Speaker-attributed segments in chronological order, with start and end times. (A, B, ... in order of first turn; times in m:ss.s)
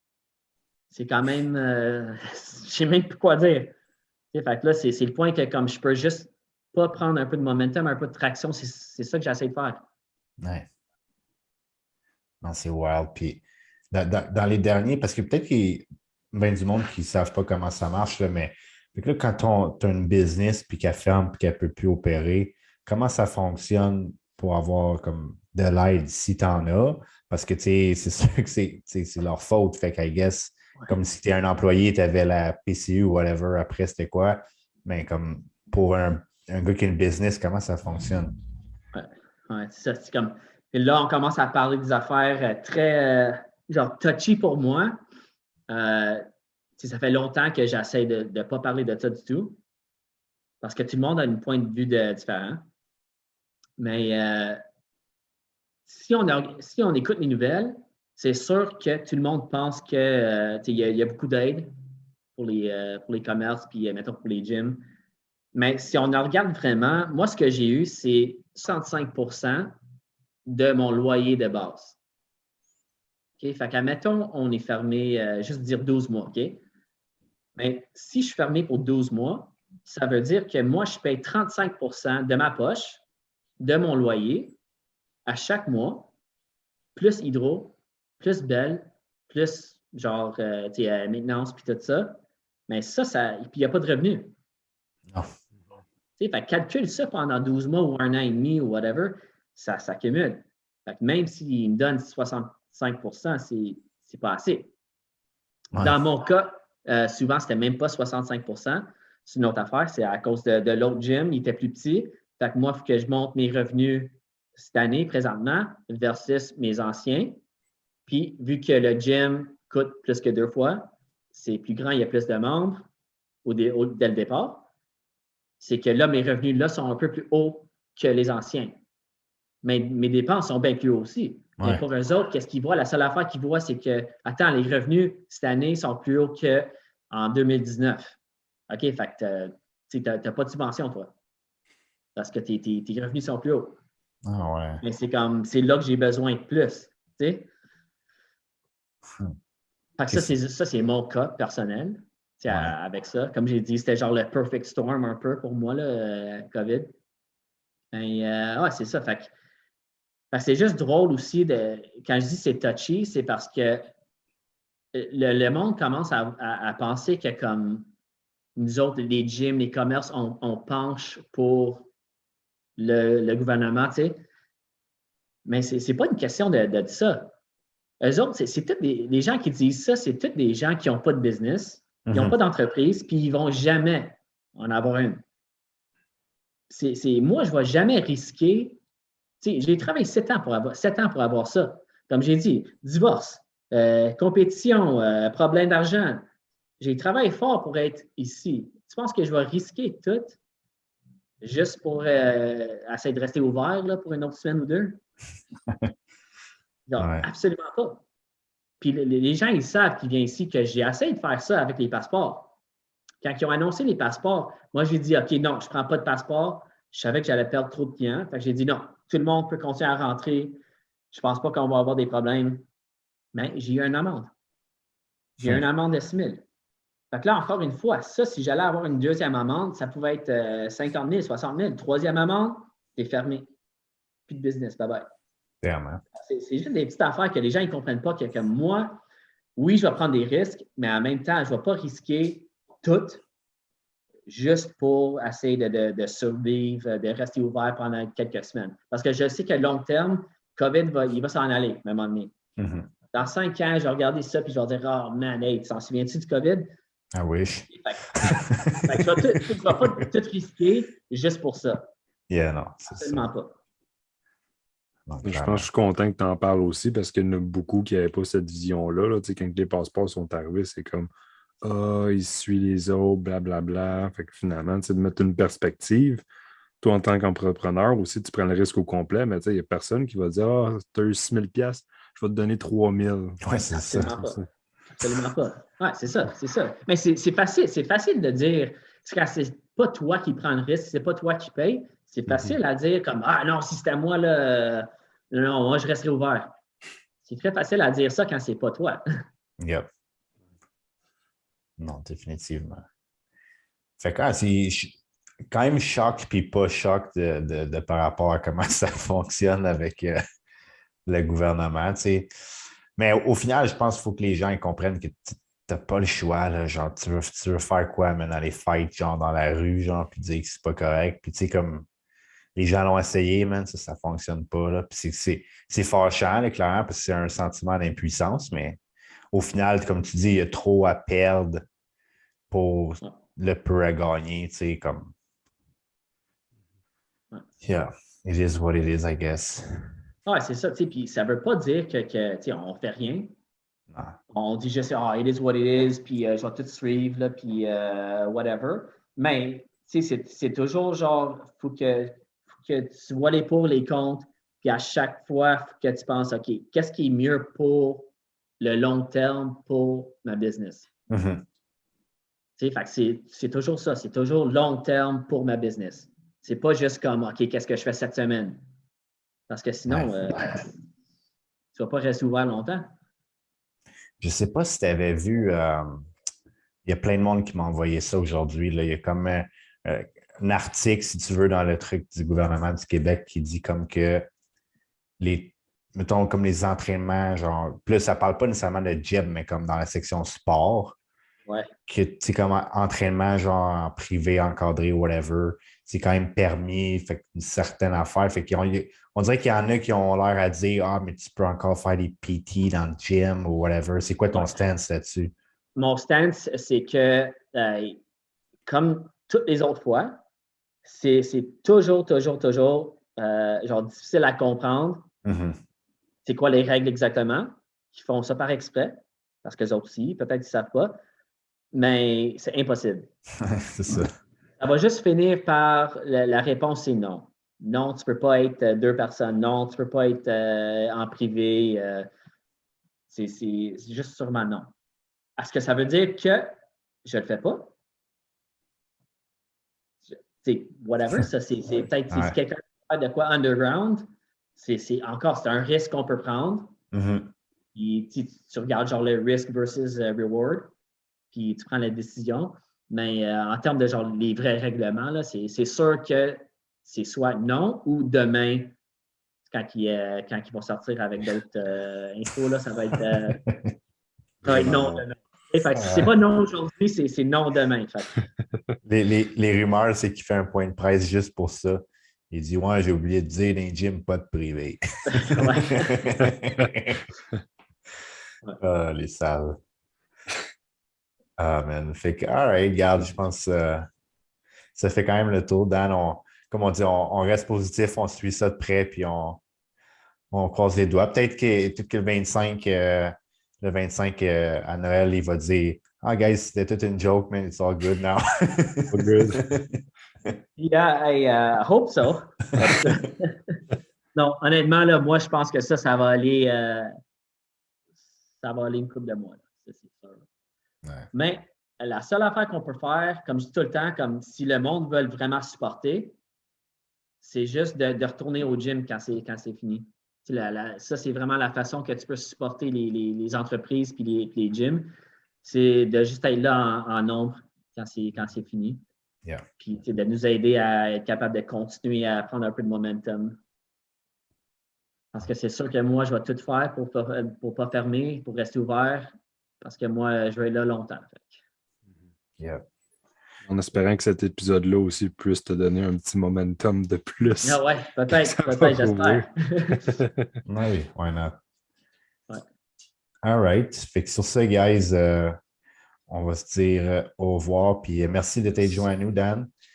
0:00.9-0:03.7 A
0:04.3-0:09.8 A
0:10.4-0:10.7 B
0:12.4-0:38.3 B
0:38.9-0:45.0 A
0:45.7-0:46.2 A
0:46.8-0:49.6 A
0:50.6-0:52.6 A
0:53.8-0:54.6 A
0:55.9-1:01.7 A
1:02.3-1:04.8 A
1:05.5-1:09.7 A
1:10.4-1:12.0 A
1:13.4-1:16.6 A
1:17.6-1:23.0 A
1:23.6-1:24.6 A
1:25.2-1:26.1 A
1:26.9-1:34.3 A
1:36.2-1:44.7 A
1:45.7-1:57.4 A
1:58.1-2:02.8 A
2:03.4-2:04.7 A
2:05.6-2:08.7 A
2:09.6-2:18.2 A
2:18.7-2:21.1 A
2:22.1-2:23.8 A
2:24.2-2:24.8 B
2:24.8-2:27.5 A
2:30.0-2:36.9 A
2:32.5-2:32.7 B
2:37.9-2:39.3 A
2:40.3-2:43.9 A
2:44.9-2:47.9 A
2:48.6-2:51.9 A
2:52.8-2:54.2 A
2:55.4-2:57.3 A
2:58.0-3:05.2 A
3:02.0-3:02.3 B
3:06.7-3:08.8 A
3:09.4-3:16.2 A
3:16.8-3:20.4 A
3:21.4-3:25.0 A
3:26.9-3:28.0 A
3:27.0-3:27.2 B
3:28.8-3:32.5 A
3:33.2-3:40.6 A
3:41.1-3:42.6 A
3:43.3-3:44.3 A
3:45.4-3:46.4 A
3:47.1-3:53.5 A
3:54.3-3:55.1 A
3:55.6-3:56.0 B
3:56.1-3:59.0 A
3:59.6-4:03.2 A
4:04.3-4:12.3 A
4:12.6-4:12.9 B
4:13.1-4:16.7 A
4:17.1-4:19.2 B
4:17.7-4:21.9 A
4:22.3-4:23.3 B
4:22.9-4:23.6 A
4:25.1-4:25.7 B
4:25.2-4:31.1 C
4:31.6-4:36.2 C
4:36.8-4:43.4 C
4:43.4-4:44.1 B
4:43.7-4:44.4 A
4:45.0-4:56.5 A
4:57.2-4:59.0 A
4:59.6-4:59.9 B
5:01.8-5:02.8 B
5:04.0-5:05.0 B
5:05.5-5:10.2 B
5:11.0-5:12.3 B
5:13.0-5:21.9 B
5:22.6-5:28.8 B
5:29.3-5:31.6 B
5:32.5-5:35.1 B
5:37.6-5:39.8 B
5:40.2-5:43.3 A
5:43.9-5:44.2 B
5:44.3-5:58.1 A
5:58.6-6:00.9 A
6:01.1-6:01.4 B
6:02.6-6:08.6 A
6:09.5-6:10.7 A
6:11.7-6:12.9 A
6:14.2-6:16.1 B
6:16.8-6:24.3 B
6:25.2-6:31.0 B
6:31.5-6:31.7 A
6:31.9-6:45.3 B
6:45.8-6:48.0 A
6:48.6-6:50.2 A
6:50.8-6:55.0 A
6:55.2-6:55.6 B
6:56.2-7:01.0 A
7:01.7-7:03.1 A
7:03.4-7:04.1 B
7:04.6-7:12.1 A
7:13.1-7:14.7 A
7:15.4-7:17.7 A
7:20.1-7:26.7 A
7:22.1-7:22.4 B
7:26.9-7:27.3 B
7:27.7-7:30.7 A
7:31.3-7:38.7 A
7:39.5-7:43.4 A
7:43.4-7:43.7 B
7:44.4-7:48.2 A
7:44.5-7:45.0 B
7:45.8-7:46.1 B
7:48.9-7:57.0 B
7:55.1-7:56.0 A
7:58.6-7:59.6 B
8:01.4-8:03.9 B
8:04.7-8:09.4 B
8:10.3-8:20.4 B
8:18.9-8:19.5 C
8:20.6-8:23.6 A
8:24.1-8:26.9 A
8:28.4-8:30.2 A
8:30.8-8:31.1 B
8:31.1-8:36.2 A
8:37.2-8:44.9 A
8:45.4-8:48.8 A
8:49.6-8:53.4 A
8:55.1-9:01.4 A
9:03.4-9:10.3 C
9:07.4-9:09.9 A
9:10.4-9:11.4 B
9:13.2-9:15.4 B
9:16.1-9:19.5 B